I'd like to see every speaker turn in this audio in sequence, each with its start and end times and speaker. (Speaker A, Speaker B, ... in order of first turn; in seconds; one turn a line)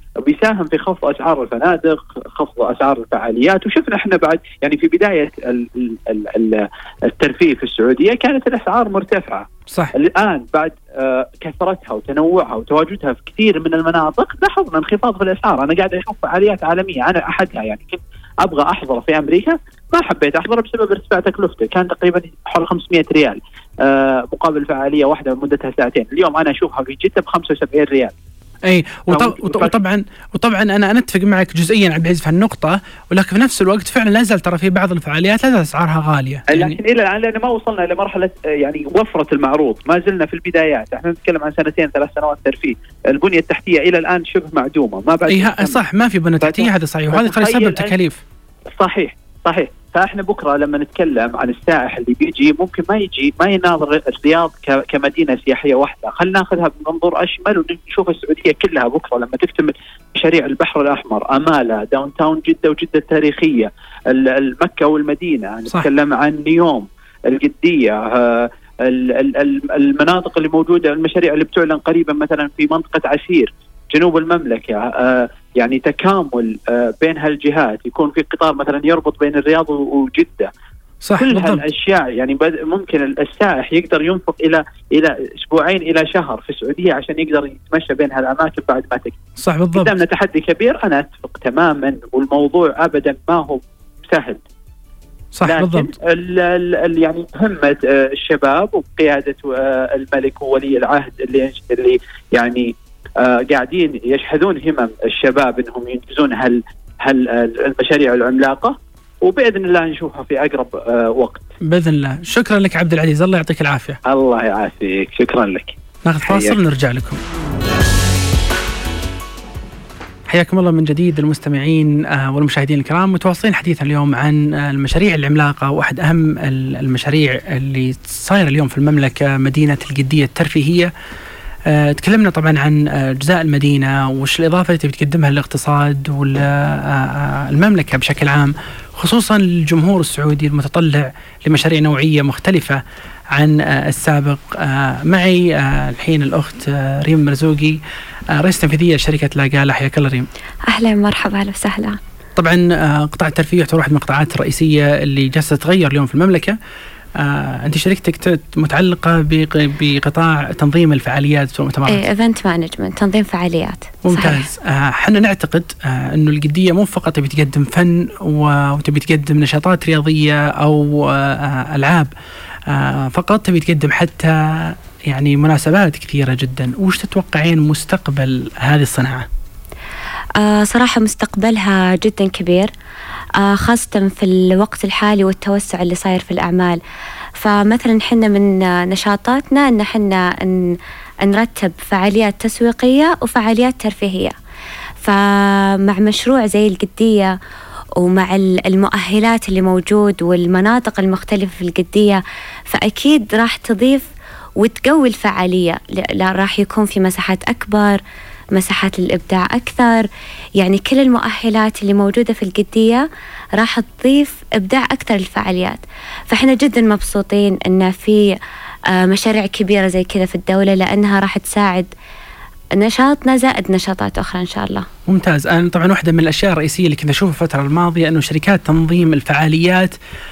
Speaker A: 0.2-28.1
Speaker B: 28.7-36.8
Speaker A: 29.1-29.8
Speaker A: 36.5-45.8
Speaker B: 45.3-48.2
Speaker A: 46.4-47.9
Speaker A: 48.8-80.5
Speaker B: 81.0-81.6
Speaker A: 81.2-89.2
Speaker B: 89.4-90.0
Speaker A: 89.7-94.4
Speaker B: 95.3-95.9
Speaker A: 95.5-111.5
Speaker B: 111.7-114.0
Speaker A: 114.0-115.7
Speaker B: 116.0-117.2
Speaker A: 116.3-116.6
Speaker B: 120.3-130.9
Speaker B: 131.7-142.8
Speaker B: 143.3-147.8
Speaker B: 148.3-150.3
Speaker C: 150.7-152.0
Speaker B: 152.4-156.6
Speaker B: 157.2-162.0
Speaker C: 161.9-164.4
Speaker B: 164.0-172.1
Speaker B: 172.7-179.3
Speaker C: 180.4-182.7
Speaker C: 183.4-186.8
Speaker C: 187.4-194.3
Speaker C: 195.0-197.4
Speaker C: 198.0-204.1
Speaker C: 204.6-208.0
Speaker C: 208.6-210.1
Speaker C: 210.6-218.4
Speaker C: 218.9-221.9
Speaker C: 222.8-224.9
Speaker B: 225.1-229.9